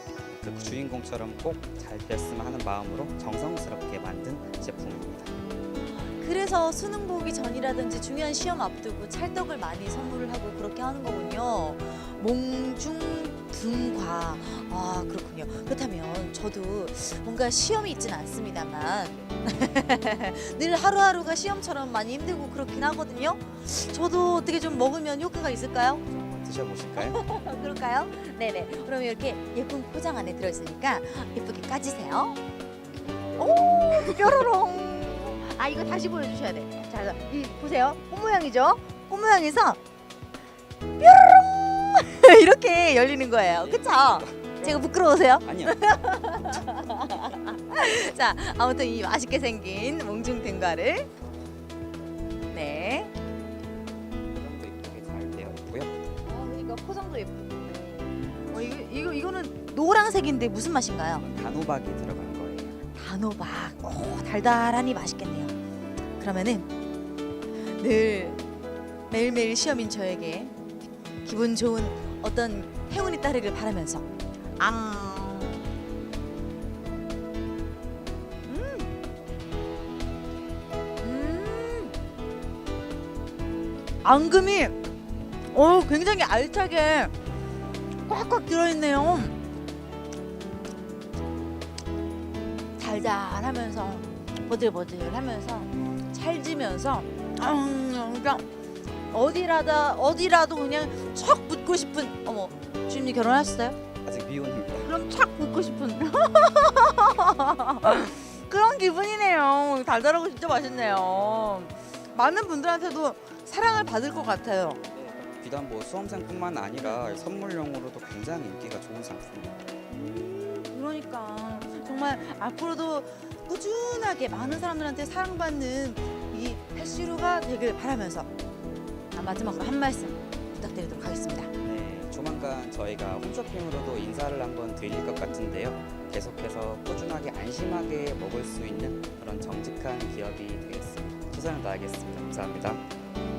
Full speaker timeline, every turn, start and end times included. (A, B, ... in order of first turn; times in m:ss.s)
0:00.4-0:05.3 A
0:06.0-0:26.0 B
0:26.1-0:27.2 A
0:27.0-0:32.4 B
0:33.4-0:39.8 B
0:41.0-0:51.1 B
0:43.6-0:45.8 A
0:52.5-0:53.1 B
0:54.2-0:55.9 A
0:56.2-1:01.2 B
1:01.2-1:02.8 A
1:02.9-1:05.5 B
1:06.2-1:06.7 B
1:07.6-1:08.4 B
1:09.1-1:10.6 B
1:11.2-1:15.6 B
1:18.5-1:18.9 B
1:21.0-1:21.9 B
1:24.0-1:24.7 B
1:25.5-1:27.1 B
1:28.0-1:29.4 B
1:32.8-1:38.4 B
1:39.1-1:43.8 B
1:44.0-1:44.9 A
1:44.8-1:54.8 B
1:54.9-1:59.6 A
1:59.9-2:08.3 B
2:09.1-2:11.5 B
2:11.6-2:22.8 A